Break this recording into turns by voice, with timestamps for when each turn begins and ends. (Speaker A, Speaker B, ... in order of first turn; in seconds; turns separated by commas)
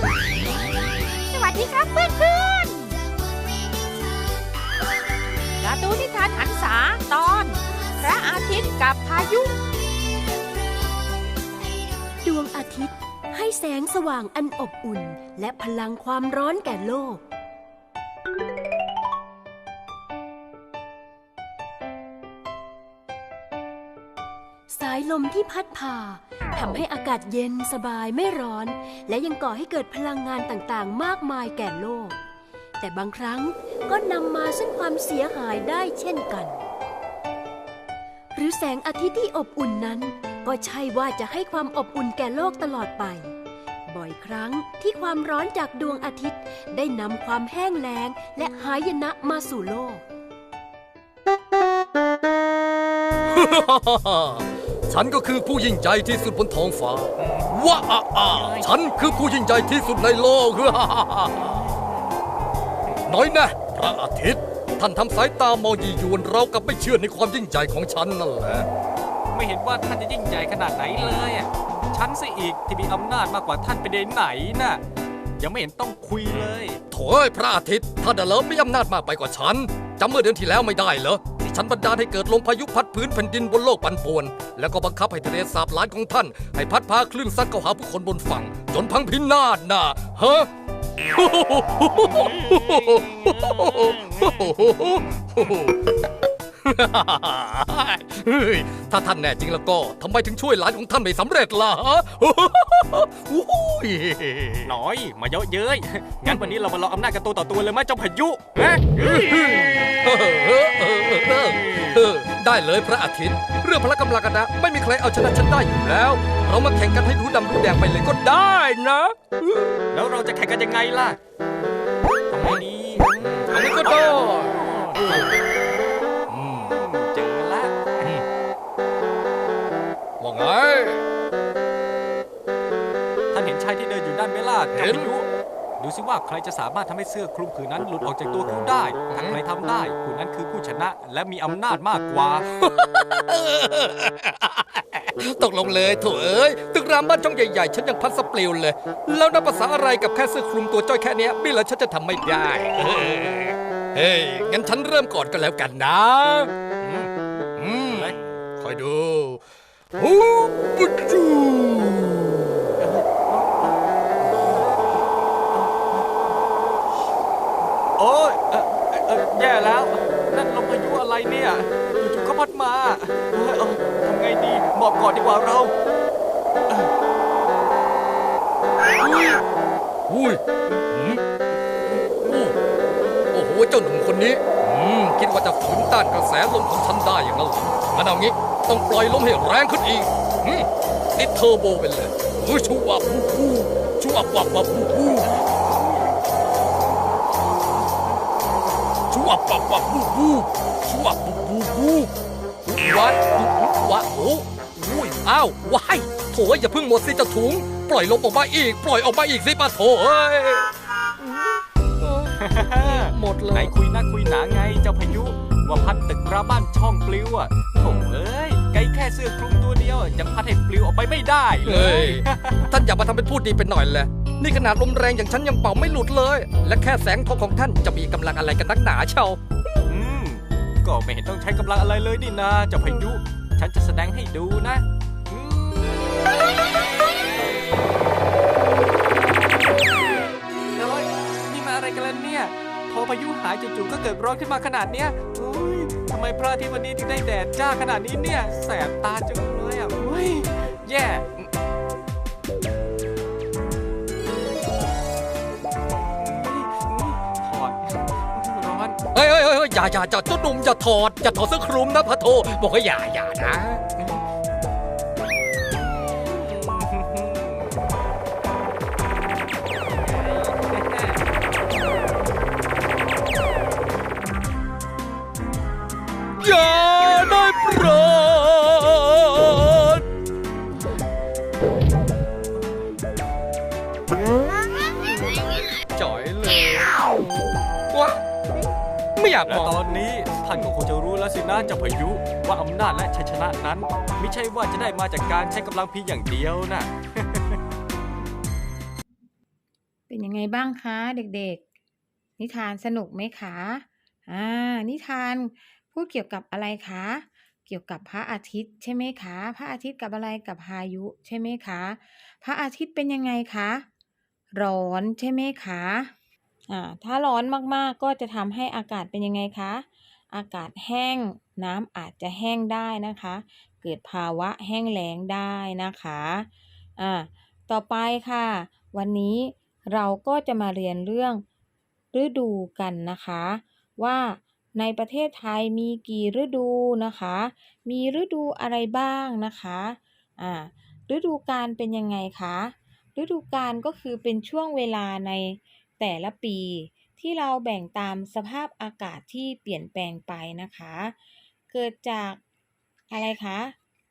Speaker A: 1.3-3.0, Speaker A: 5.6-9.6, Speaker B: 12.2-17.2, Speaker B: 24.7-32.2, Speaker B: 32.8-36.6, Speaker B: 38.4-43.3, Speaker B: 43.9-50.0, Speaker C: 53.3-61.6, Speaker D: 58.3-58.7, Speaker C: 63.0-68.7, Speaker D: 69.3-74.8, Speaker D: 75.4-76.8, Speaker C: 76.9-90.5, Speaker C: 91.1-95.8, Speaker C: 96.7-104.8, Speaker D: 104.7-109.2, Speaker C: 109.0-119.8, Speaker D: 111.6-112.0, Speaker D: 119.9-121.2, Speaker D: 122.3-125.3, Speaker C: 123.2-125.3, Speaker C: 126.3-126.8, Speaker D: 126.7-128.1, Speaker C: 130.2-131.0, Speaker D: 133.3-135.3, Speaker C: 134.7-135.1, Speaker D: 135.8-142.5, Speaker C: 139.1-139.4, Speaker C: 142.5-156.5, Speaker D: 156.8-157.1, Speaker C: 157.6-159.4, Speaker D: 157.9-158.4, Speaker C: 160.0-162.8, Speaker D: 162.8-165.0, Speaker D: 165.5-166.4, Speaker D: 168.0-175.7, Speaker C: 179.0-179.4, Speaker C: 180.1-181.2, Speaker C: 182.2-182.6, Speaker C: 183.3-195.3, Speaker D: 195.2-196.3, Speaker C: 199.1-202.1, Speaker C: 202.7-210.7, Speaker C: 212.0-213.7, Speaker D: 212.4-222.7, Speaker C: 221.7-229.4, Speaker D: 229.9-238.0, Speaker D: 239.9-251.5, Speaker D: 256.2-259.0, Speaker C: 259.1-263.9, Speaker D: 266.1-267.7, Speaker D: 270.3-271.2, Speaker C: 276.4-280.1, Speaker C: 285.9-287.0, Speaker C: 287.9-288.2, Speaker C: 289.2-289.8, Speaker D: 289.4-297.6, Speaker E: 300.1-301.6, Speaker E: 302.4-313.9, Speaker E: 314.5-316.1, Speaker E: 316.7-331.4, Speaker E: 332.1-351.2, Speaker E: 351.7-352.4, Speaker E: 353.1-353.8